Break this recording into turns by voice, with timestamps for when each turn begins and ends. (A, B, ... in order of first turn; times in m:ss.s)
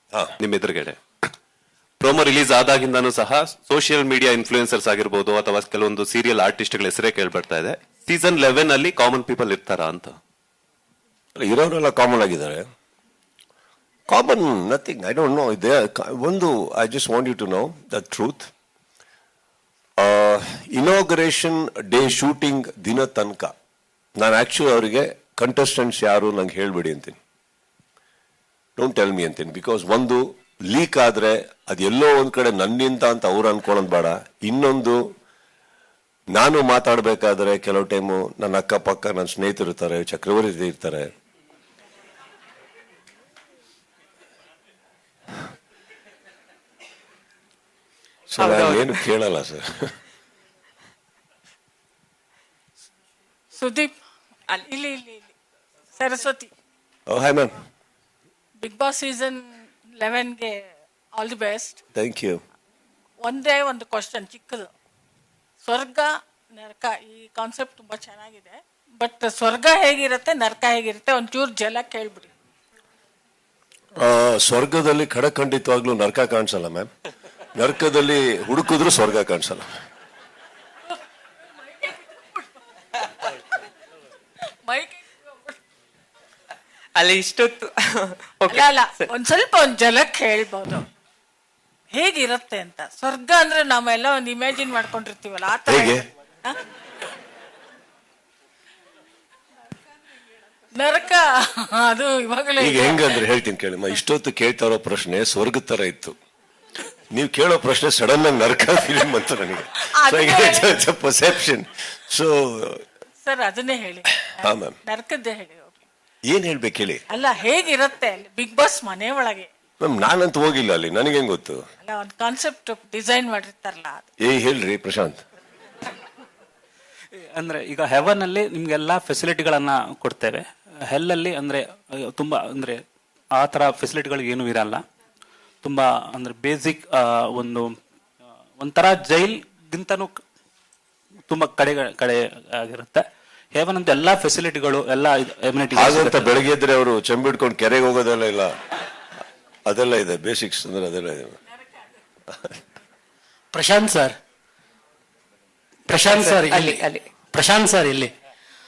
0:00.4-0:01.0 A
0:02.0-0:10.2 A
0:11.4-0:12.6 B
0:14.1-0:18.5 B
0:20.0-0:23.5 B
0:24.2-0:27.2 B
0:28.8-0:35.0 B
0:36.3-0:41.1 B
0:48.3-0:50.0 B
0:48.4-0:48.9 C
0:53.6-0:53.9 D
0:54.5-0:55.3 D
0:56.0-0:56.5 D
0:57.1-0:57.6 B
0:58.6-0:59.4 D
1:00.0-1:00.6 D
1:01.2-1:01.8 D
1:02.0-1:02.4 B
1:03.2-1:04.7 D
1:05.6-1:12.3 D
1:14.0-1:16.9 B
1:17.6-1:19.6 B
1:24.7-1:25.1 D
1:27.0-1:28.7 C
1:28.5-1:30.8 D
1:31.9-1:36.6 D
1:35.7-1:36.0 B
1:40.8-1:43.1 D
1:42.6-1:46.2 B
1:47.1-1:52.8 B
1:50.0-1:50.7 D
1:53.2-1:55.8 D
1:54.4-1:54.8 B
1:56.3-1:57.0 B
1:57.1-1:59.5 D
1:59.8-2:01.6 B
2:01.8-2:04.0 D
2:04.2-2:05.2 B
2:07.4-2:12.8 E
2:13.4-2:14.8 E
2:15.6-2:17.7 E
2:18.6-2:20.2 E
2:21.3-2:26.4 E
2:25.7-2:28.5 B
2:29.7-2:31.4 B
2:33.5-2:34.1 F
2:35.9-2:36.8 F
2:36.0-2:37.1 C
2:37.3-2:38.1 F